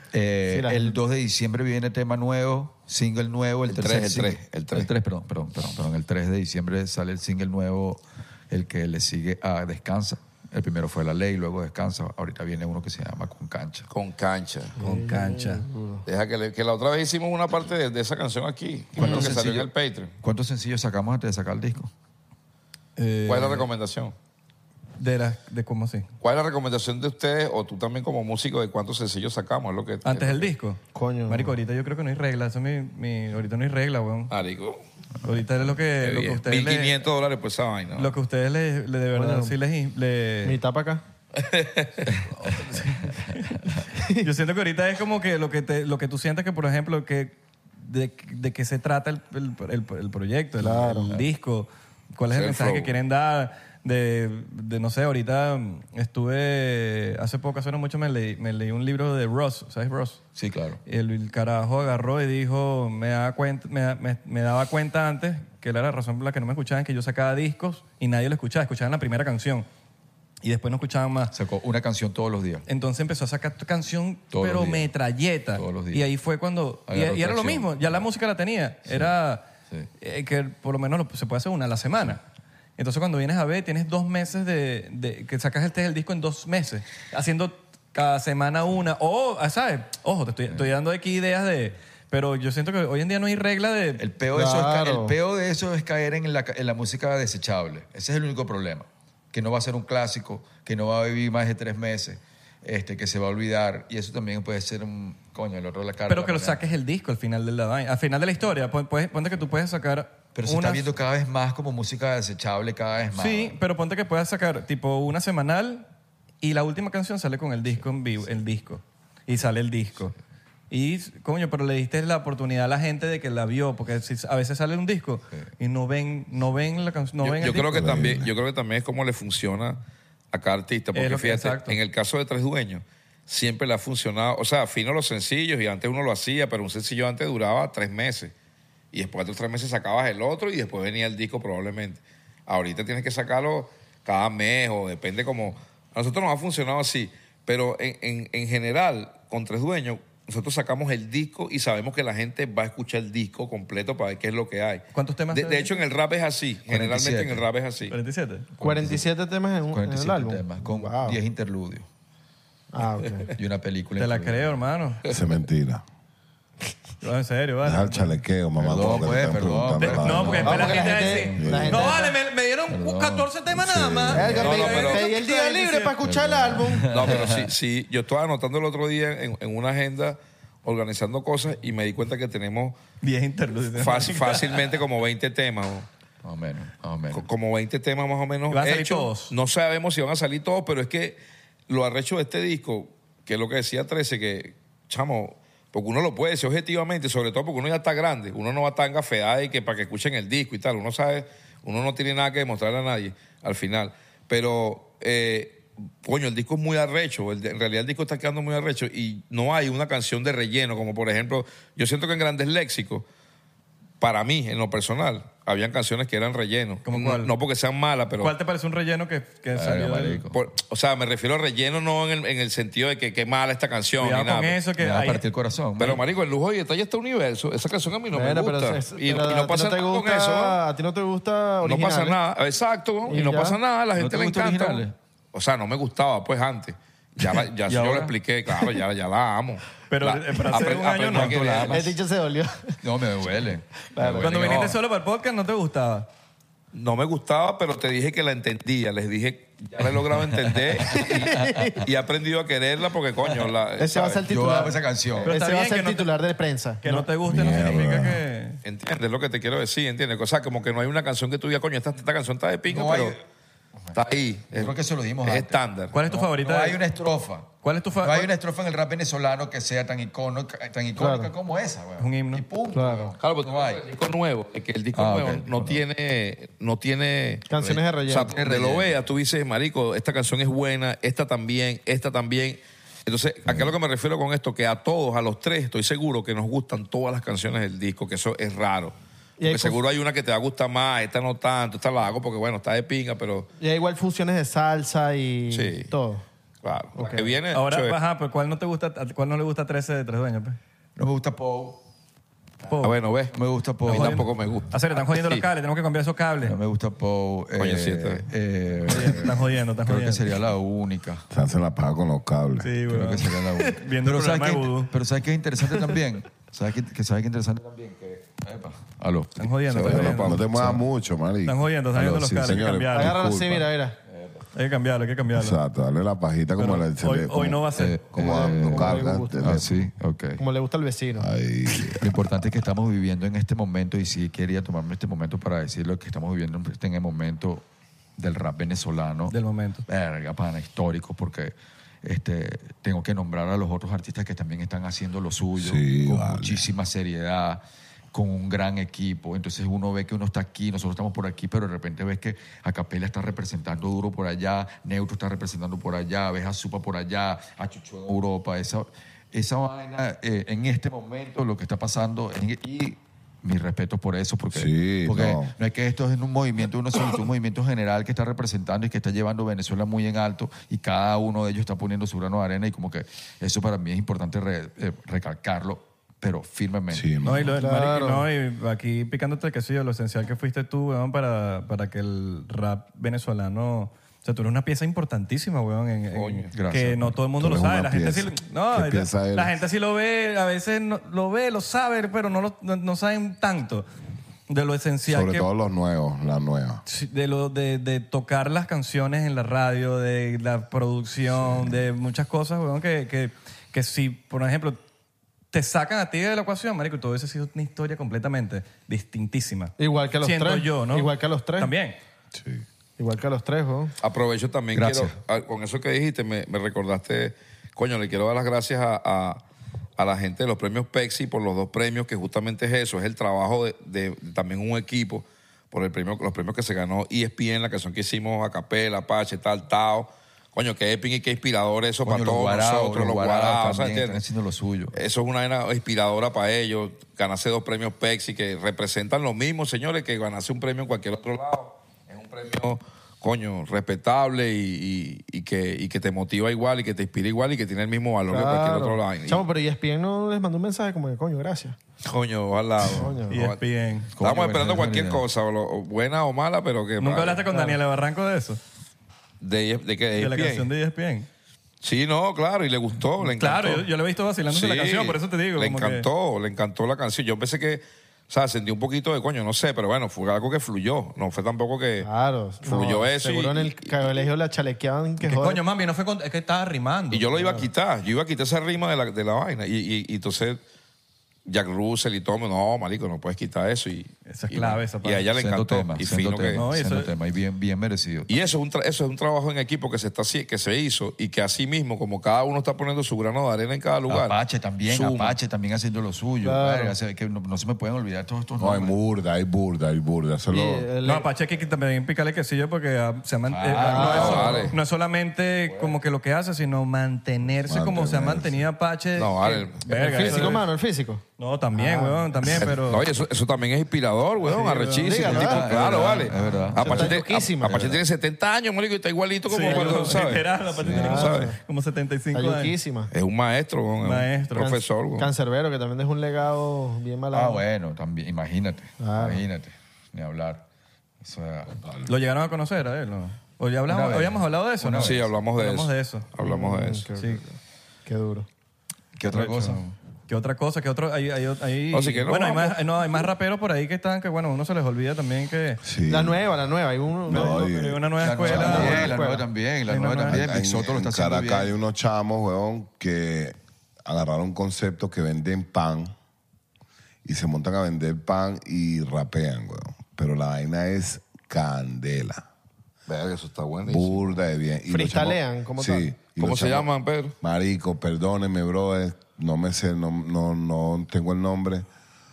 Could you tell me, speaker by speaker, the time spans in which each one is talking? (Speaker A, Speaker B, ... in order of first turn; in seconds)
Speaker A: 0.1-13.9, 18.9-19.7, 20.2-21.9, 60.4-60.8, 71.3-72.7, 74.3-74.9, 75.5-76.1, 76.9-78.0, 78.9-79.1, 94.0-106.6, 110.3-113.6, 156.7-157.4, 158.6-159.1, 159.7-161.9, 163.4-164.6, 168.6-171.9, 172.7-173.3, 176.0-177.5, 186.2-187.3, 219.6-220.4, 224.8-226.0, 233.9-234.9, 237.2-238.7, 241.1-241.9, 242.8-244.7, 249.8-251.8, 254.2-255.3, 262.7-263.2, 264.5-273.9, 274.9-275.8, 277.6-279.0, 283.5-283.7, 301.0-301.8, 303.3-304.5, 306.4-311.3, 312.9-320.8, 321.9-322.7, 324.1-324.4, 327.8-330.4, 331.9-337.6, 338.2-339.4, 339.9-347.6, 348.1-377.3, 386.5-387.2, 414.7-415.1, 432.0-435.0, 454.1-455.2, 485.4-488.5, 494.1-498.9, 503.5-504.7, 505.7-506.0, 515.2-518.0, 520.8-521.3, 527.3-530.6, 531.2-531.8, 533.9-535.3, 539.2-539.8, 548.2-551.7
Speaker B: 0.5-0.9, 14.8-16.1, 19.0-19.3, 30.9-31.6, 39.1-39.5, 40.5-41.0, 44.0-44.3, 50.6-51.1, 94.3-95.2, 158.6-161.2, 162.7-163.3, 170.4-172.1, 174.1-177.2, 228.1-232.2, 233.1-233.6, 241.7-242.8, 243.9-244.6, 250.9-251.8, 253.8-257.1, 271.0-271.3, 272.7-273.1, 277.5-278.4, 289.4-289.8, 293.6-296.2, 297.0-297.3, 322.9-324.0, 328.2-329.6, 330.4-331.3, 377.6-378.3, 409.8-411.7, 413.0-413.9, 448.3-451.8, 452.8-453.4, 457.5-457.8, 472.0-475.6, 496.4-497.0, 500.5-501.3, 503.8-504.7, 509.5-511.2, 511.8-512.5, 515.0-518.0, 519.6-521.6, 522.3-523.1, 524.6-527.6, 529.0-529.4, 536.4-538.5, 546.1-547.7, 548.5-549.5, 564.9-566.1
Speaker C: 3.7-4.9, 13.9-14.8, 16.1-20.1, 23.3-24.1, 26.2-30.5, 34.3-34.8, 36.0-38.1, 41.4-42.2, 52.3-53.0, 127.2-129.8, 130.3-138.3, 138.9-157.9, 174.4-175.1, 176.9-182.8, 183.8-185.9, 187.1-213.1, 214.0-218.3, 220.3-224.6, 225.8-230.6, 231.6-241.9, 246.7-254.2, 258.6-263.2, 263.9-265.9, 273.2-293.5, 295.5-295.9, 296.6-298.0, 302.8-305.4, 307.6-308.3, 319.7-320.4, 386.1-386.5, 414.0-419.4, 420.0-434.2, 434.9-449.4, 452.1-453.6, 454.2-457.4, 459.4-460.7, 461.8-463.9, 464.5-472.1, 472.6-474.3, 477.1-480.6, 481.5-486.6, 488.3-495.4, 504.0-504.8, 509.2-510.5, 512.5-521.5, 523.1-525.3, 535.0-537.1, 541.9-542.8, 563.1-564.4, 566.4-567.4
Speaker D: 14.8-15.7, 23.0-23.7, 25.0-26.1, 30.1-34.3, 35.2-37.0, 38.0-40.6, 42.4-60.2, 60.9-69.7, 70.4-71.3, 72.7-79.5, 80.0-82.2, 82.8-94.0, 106.1-110.9, 113.2-115.9, 116.4-120.1, 120.7-128.0, 130.9-131.8, 154.9-155.7, 157.9-158.5, 164.0-165.0, 167.0-168.2, 169.8-176.0, 183.0-184.6, 188.5-189.3, 216.8-217.3, 218.2-220.2, 224.0-225.2, 239.9-241.7, 244.2-246.1, 255.2-256.1, 256.8-258.6, 265.9-266.8, 267.6-268.3, 272.0-272.4, 297.5-300.6, 302.7-303.0, 303.9-306.6, 308.9-310.3, 312.6-314.9, 319.4-320.4, 321.4-323.1, 324.5-325.6, 326.6-328.1, 339.3-339.8, 377.2-393.9, 394.5-395.5, 396.9-404.8, 405.5-412.0, 453.3-454.1, 457.0-458.6, 460.2-461.3, 463.2-466.1, 475.2-477.3, 484.3-485.3, 486.5-487.1, 501.0-510.7, 511.4-513.1, 514.4-515.3, 519.5-522.8, 524.0-524.7, 532.1-536.3, 539.3-545.8, 547.3-549.1, 549.9-550.4
Speaker E: 127.7-128.3, 165.1-165.8, 167.6-170.7, 171.4-171.9, 173.5-174.5, 257.2-258.2, 311.3-312.7, 319.9-321.7, 322.3-323.7, 325.3-329.9, 331.2-332.2, 345.6-346.7, 364.5-365.5, 376.9-377.5, 387.4-389.6, 395.1-396.8, 412.3-412.6, 498.6-500.9, 507.7-508.6, 545.8-546.4, 547.3-549.1, 550.3-556.1, 557.2-562.5, 563.9-566.9, 567.4-571.9